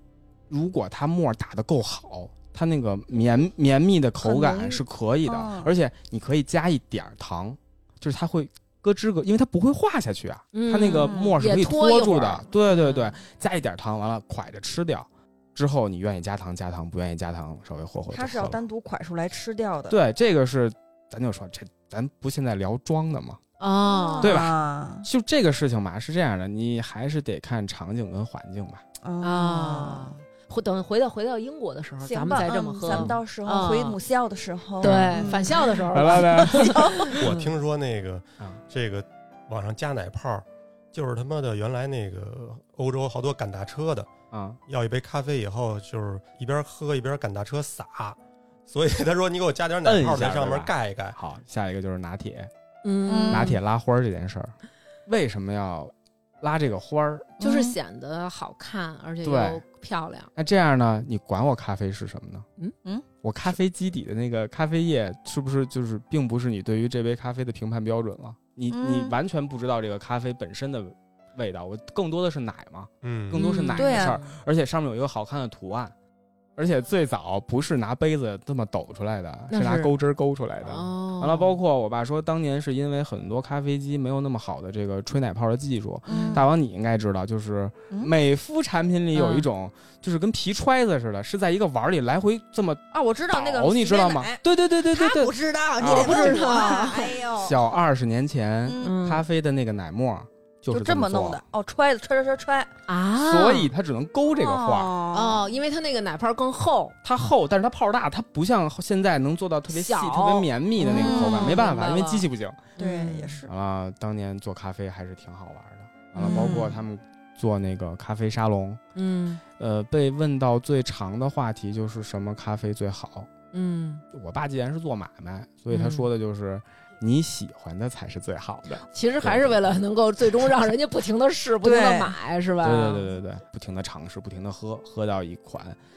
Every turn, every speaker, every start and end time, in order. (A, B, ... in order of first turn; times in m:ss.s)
0:00.5-0:18.6 A
0:04.2-0:05.7 B
0:10.5-0:12.5 C
0:10.8-0:11.4 B
0:12.7-0:13.1 B
0:18.1-0:20.0 B
0:19.9-0:23.4 A
0:23.6-0:24.4 C
0:23.8-0:25.1 B
0:24.2-0:28.8 A
0:29.0-0:30.1 B
0:29.2-0:34.0 C
0:32.0-0:37.0 B
0:32.9-0:33.2 A
0:34.8-0:37.5 C
0:34.8-0:35.4 A
0:35.9-0:37.1 A
0:37.1-0:44.1 D
0:44.3-0:44.6 A
0:44.7-0:51.2 D
0:49.8-0:52.5 A
0:52.8-0:53.6 C
0:53.1-0:53.6 B
0:53.3-0:54.6 A
0:55.1-0:57.4 A
0:57.4-0:57.8 B
0:57.4-1:00.3 C
0:59.2-0:59.6 A
1:00.4-1:02.4 A
1:03.2-1:15.9 A
1:08.7-1:09.1 B
1:13.0-1:13.4 D
1:13.3-1:14.2 B
1:13.4-1:14.3 C
1:16.6-1:36.5 A
1:19.5-1:19.9 C
1:20.6-1:21.6 C
1:26.1-1:26.5 B
1:26.1-1:26.4 C
1:29.1-1:29.4 C
1:32.9-1:37.6 B
1:35.8-1:37.2 C
1:37.4-1:41.4 A
1:38.7-1:39.0 B
1:38.8-1:39.2 C
1:40.7-1:42.7 B
1:42.9-1:43.7 C
1:43.2-1:44.9 A
1:44.4-1:45.4 B
1:45.1-1:47.0 C
1:47.0-1:52.7 A
1:49.7-1:53.4 C
1:50.8-1:51.7 B
1:52.8-1:53.5 B
1:53.5-1:58.8 A
1:56.2-1:56.8 C
1:56.2-1:56.7 B
1:59.0-1:59.4 C
1:59.6-2:03.3 A
2:03.5-2:04.0 C
2:04.1-2:09.6 A
2:05.7-2:06.1 C
2:08.9-2:13.1 C
2:11.6-2:12.2 B
2:12.6-2:15.8 A